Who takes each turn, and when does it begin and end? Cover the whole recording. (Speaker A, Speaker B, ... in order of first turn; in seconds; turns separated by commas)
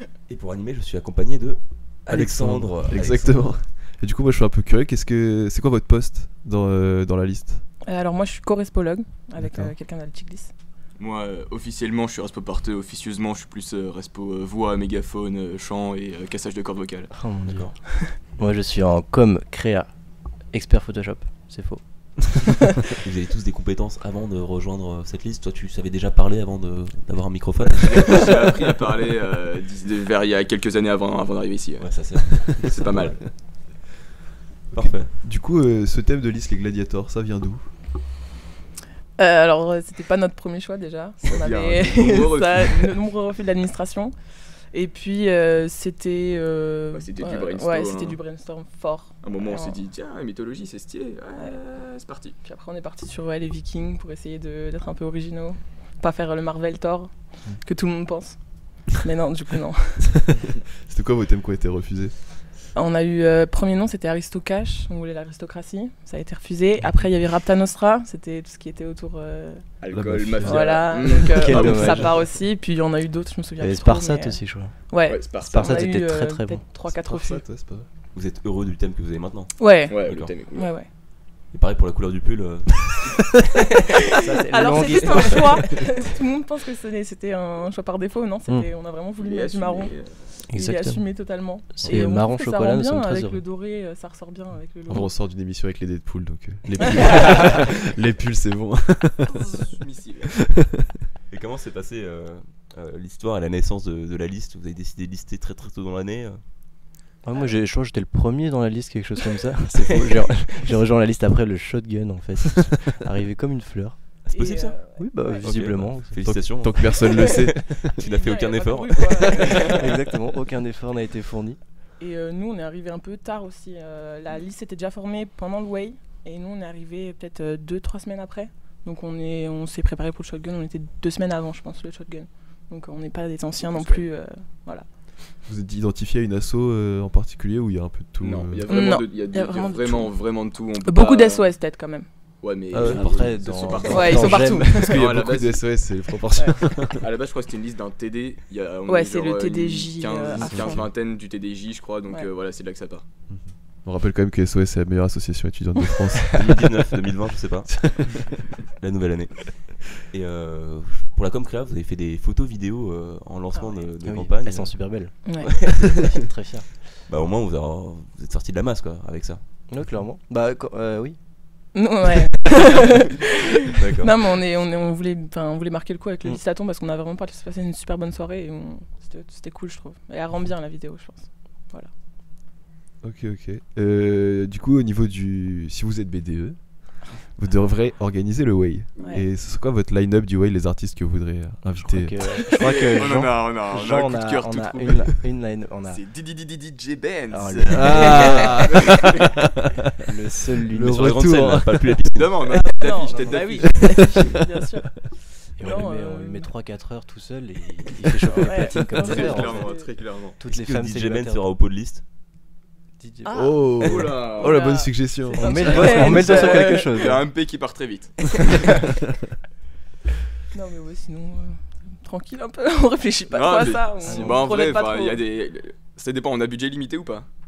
Speaker A: 0.3-3.4, Speaker B: 2.1-7.6, Speaker C: 7.8-10.5, Speaker B: 9.4-9.7, Speaker D: 11.0-17.1, Speaker E: 17.1-22.4, Speaker A: 17.5-17.9, Speaker A: 22.9-28.3, Speaker D: 27.8-33.3, Speaker A: 31.8-33.2, Speaker A: 34.7-35.1, Speaker B: 35.1-37.7, Speaker C: 39.2-44.1, Speaker D: 41.2-43.0, Speaker C: 44.7-49.8, Speaker D: 46.9-48.2, Speaker D: 49.2-52.4, Speaker C: 52.4-60.3, Speaker B: 60.8-62.2, Speaker C: 62.7-69.7, Speaker D: 69.8-72.3, Speaker B: 69.9-70.8, Speaker C: 70.4-77.5, Speaker E: 71.2-72.1, Speaker E: 73.6-76.7, Speaker D: 75.1-75.9, Speaker B: 76.9-77.9, Speaker A: 78.1-80.3, Speaker C: 79.6-80.9, Speaker D: 79.9-80.7, Speaker A: 81.5-83.2, Speaker C: 83.9-95.1, Speaker E: 84.2-85.8, Speaker A: 84.9-85.5, Speaker E: 88.5-88.7, Speaker D: 89.1-90.4, Speaker E: 90.5-93.4, Speaker B: 94.9-99.5, Speaker D: 99.4-100.3, Speaker A: 101.3-106.4, Speaker E: 107.2-114.0, Speaker C: 114.3-115.7, Speaker A: 114.3-114.8, Speaker E: 115.0-116.2, Speaker A: 115.4-119.8, Speaker B: 116.2-117.6, Speaker C: 117.1-120.1, Speaker E: 119.4-121.6, Speaker C: 122.0-134.9, Speaker D: 133.6-134.0, Speaker B: 135.5-138.8, Speaker D: 138.2-141.5, Speaker C: 138.7-140.1, Speaker C: 140.8-142.1, Speaker D: 142.4-145.7, Speaker E: 142.7-144.7, Speaker B: 142.8-143.3, Speaker C: 143.8-145.1, Speaker B: 144.7-147.1, Speaker C: 146.3-146.7, Speaker D: 147.0-153.0, Speaker C: 148.9-150.8, Speaker B: 153.3-156.8, Speaker A: 156.3-165.3, Speaker B: 157.9-158.3, Speaker C: 163.5-163.9, Speaker E: 164.0-166.7, Speaker C: 165.2-165.7, Speaker A: 167.0-169.4, Speaker E: 169.7-171.2, Speaker C: 171.7-181.9, Speaker A: 173.8-174.2, Speaker B: 183.0-192.2, Speaker C: 189.0-189.2, Speaker E: 191.6-196.0, Speaker D: 192.5-195.2, Speaker D: 195.8-199.1, Speaker E: 197.3-198.7, Speaker B: 197.7-199.5, Speaker E: 200.0-201.8, Speaker B: 200.8-201.6, Speaker A: 200.8-202.5, Speaker D: 202.1-204.0, Speaker C: 202.5-206.6, Speaker E: 203.1-203.3, Speaker B: 203.7-204.6, Speaker E: 205.6-209.7, Speaker C: 208.3-209.9, Speaker D: 208.9-210.4, Speaker E: 210.4-211.5, Speaker A: 210.4-212.1, Speaker E: 213.0-214.0, Speaker C: 213.2-213.7, Speaker B: 213.3-215.5, Speaker D: 213.8-214.6, Speaker C: 214.4-217.2, Speaker E: 215.3-217.3, Speaker D: 215.5-218.8, Speaker C: 220.5-225.3, Speaker D: 223.3-227.3, Speaker E: 224.0-224.5